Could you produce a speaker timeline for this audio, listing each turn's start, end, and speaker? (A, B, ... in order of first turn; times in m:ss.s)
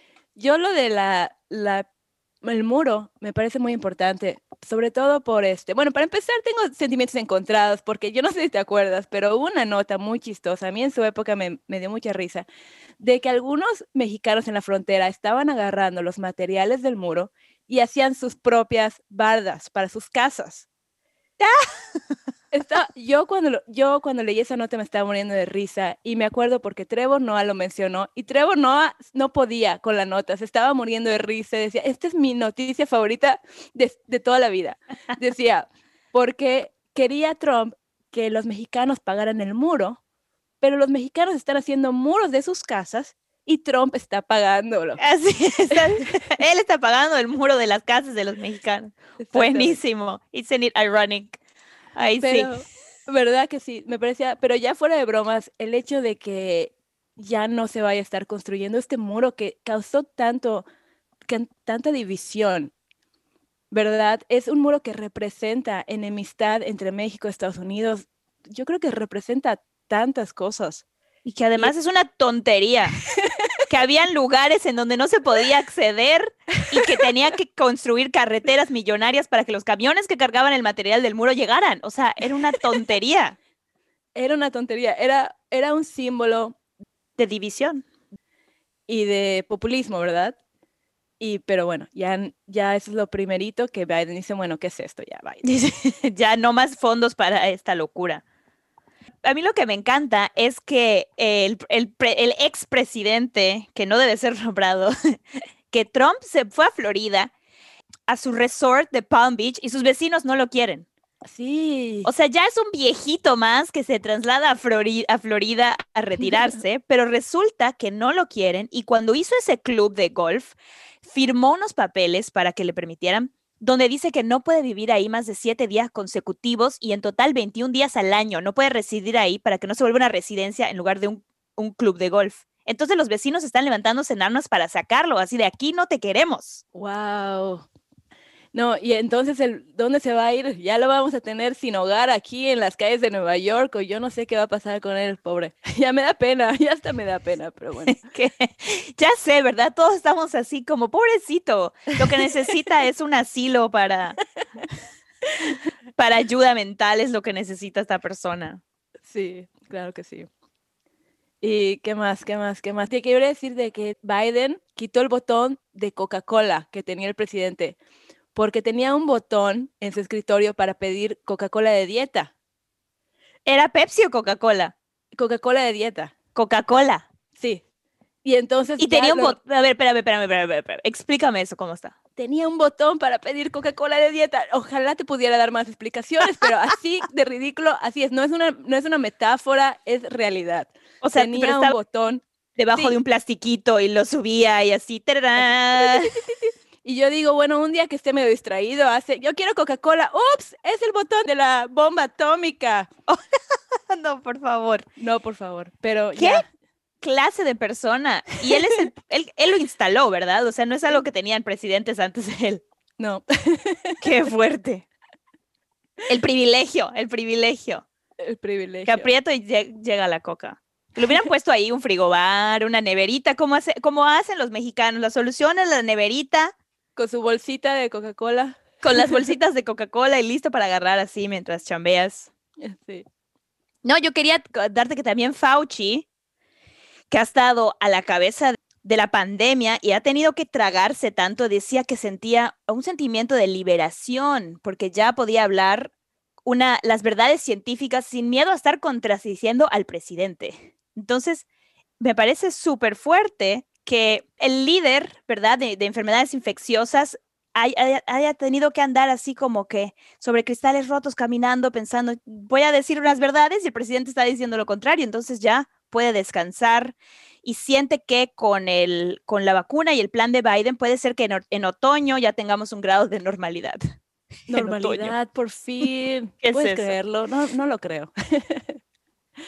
0:00.4-0:01.8 A
0:02.4-0:12.5 A
0:13.0-0:20.6 A
0:22.5-0:40.0 A
0:40.6-0:45.0 A
0:45.0-0:51.4 B
0:49.2-0:49.8 A
0:52.0-0:52.5 B
0:52.2-1:00.6 A
1:01.2-1:02.7 A
1:03.7-1:10.8 A
1:11.2-1:13.0 B
1:13.7-1:23.4 B
1:24.1-1:26.6 A
1:27.2-1:27.8 B
1:28.9-1:30.4 A
1:31.2-1:35.4 A
1:35.4-1:38.2 B
1:39.2-1:45.2 B
1:45.7-1:47.3 B
1:48.1-1:50.8 B
1:51.2-1:52.1 A
1:52.0-2:16.6 B
2:16.7-2:17.6 A
2:18.5-2:28.0 A
2:27.9-2:34.2 B
2:36.0-2:38.6 B
2:39.1-2:40.3 A
2:41.4-2:47.8 A
2:48.3-2:52.3 A
2:53.4-2:54.7 B
2:55.1-2:56.1 A
2:56.3-2:57.0 B
2:57.4-2:57.6 A
2:58.2-2:59.4 A
2:58.8-3:01.9 B
3:02.2-3:12.2 A
3:11.0-3:11.8 B
3:12.6-3:16.1 B
3:15.4-3:22.9 A
3:23.9-3:24.8 B
3:25.0-3:26.4 A
3:26.2-3:26.4 B
3:27.0-3:32.6 B
3:33.0-3:34.0 A
3:34.0-3:34.8 B
3:36.1-3:37.8 B
3:38.2-3:39.1 A
3:38.9-3:46.5 B
3:47.0-3:49.3 A
3:48.8-3:52.3 B
3:52.6-3:53.0 A
3:53.8-3:56.0 B
3:57.1-4:05.9 B
4:06.4-4:11.4 B
4:12.0-4:33.8 B
4:34.5-4:35.1 B
4:34.5-4:38.8 A
4:36.4-4:36.9 B